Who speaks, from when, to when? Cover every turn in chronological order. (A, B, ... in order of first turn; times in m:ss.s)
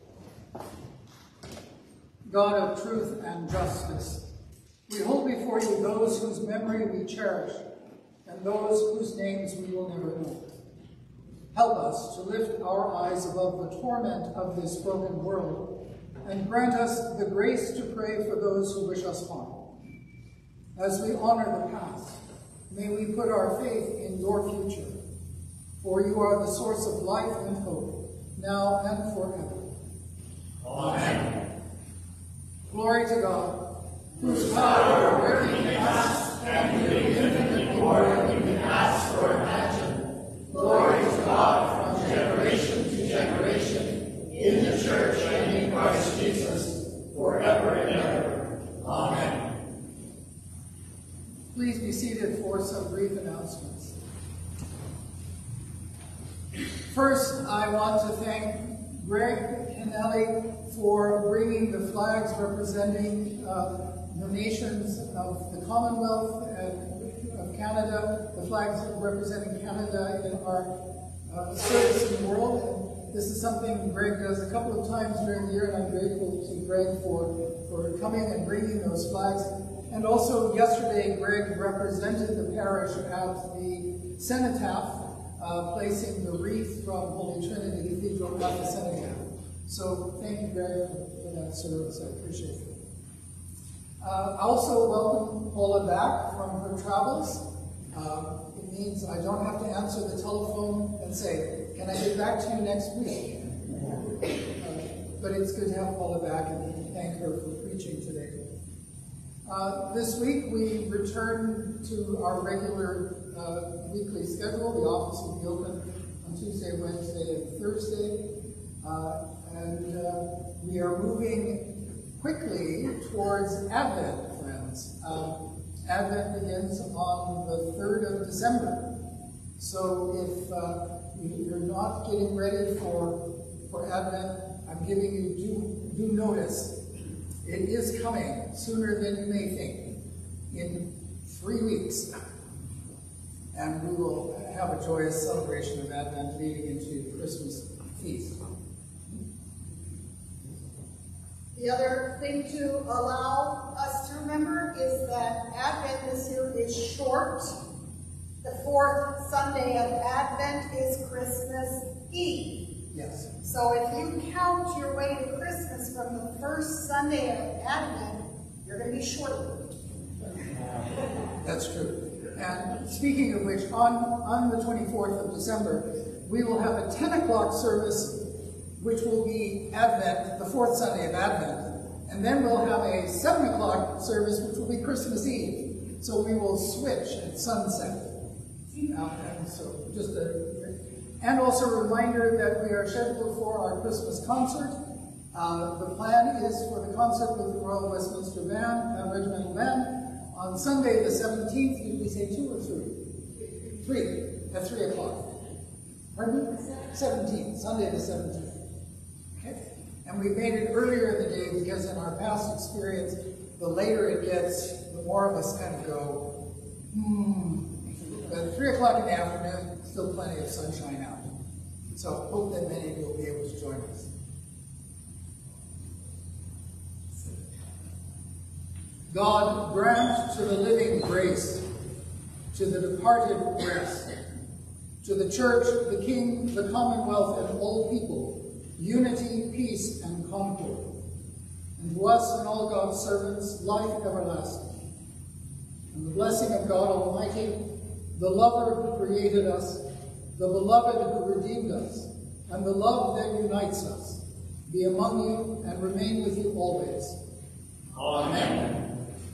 0:02.3-0:04.3 A
0:04.9-0:07.6 A
0:08.2-0:10.5 A
0:11.5-0:19.6 A
0:20.8-0:25.0 A
0:25.8-0:29.7 A
0:30.6-0:31.3 B
0:32.7-0:36.4 A
0:36.3-0:40.0 B
0:40.5-0:49.5 B
0:51.5-0:54.0 A
0:56.8-1:32.8 A
1:34.0-1:43.8 A
1:44.6-1:48.4 A
1:49.4-2:08.9 A
2:09.6-2:16.8 A
2:17.4-2:22.1 A
2:23.5-2:28.4 A
2:31.5-2:37.6 C
2:38.4-2:42.7 C
2:42.9-2:43.3 A
2:43.4-2:49.8 C
2:51.4-3:08.2 A
3:08.8-3:14.8 A
3:15.3-3:23.1 A
3:23.7-3:25.3 A
3:26.2-3:28.6 A
3:29.4-3:41.3 A
3:41.9-3:44.1 A
3:49.1-3:51.7 A
3:52.5-3:54.1 A
3:55.0-4:00.9 A
4:01.8-4:04.8 A
4:05.9-4:07.6 A
4:08.1-4:09.8 A
4:10.4-4:17.2 A
4:17.9-4:18.8 B